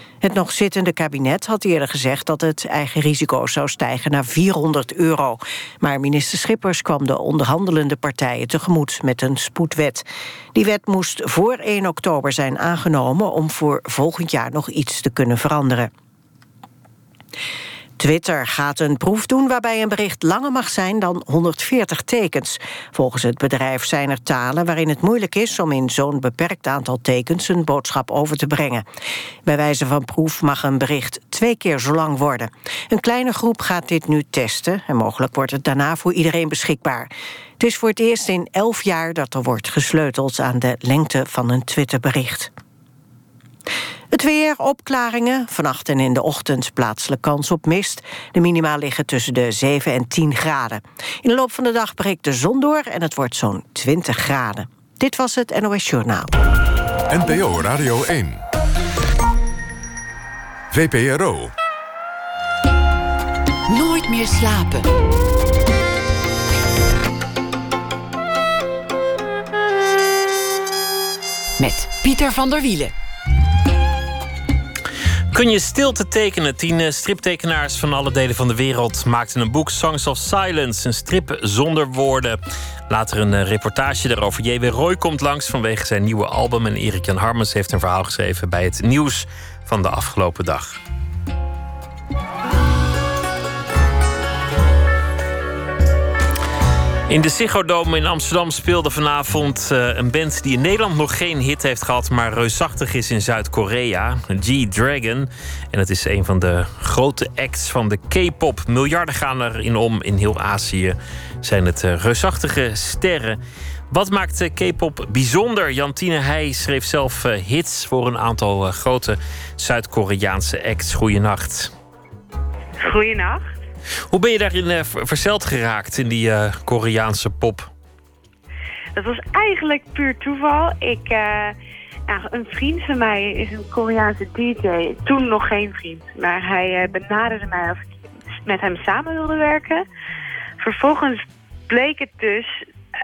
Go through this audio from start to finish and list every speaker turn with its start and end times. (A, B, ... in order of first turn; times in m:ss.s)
0:00.2-0:15.9 A
0:18.0-0:28.8 A
0:29.4-0:42.5 A
0:44.1-0:56.4 A
0:57.1-0:58.4 B
1:00.7-1:01.5 B
1:03.7-1:04.9 C
1:11.6-1:12.9 C
1:15.3-1:30.8 D
1:37.1-1:53.4 D
1:53.9-2:01.7 D
2:02.8-2:03.4 E
2:04.1-2:07.7 D
2:09.0-2:11.6 E
2:12.1-2:17.9 E
2:18.4-2:19.8 E
2:20.6-2:22.5 E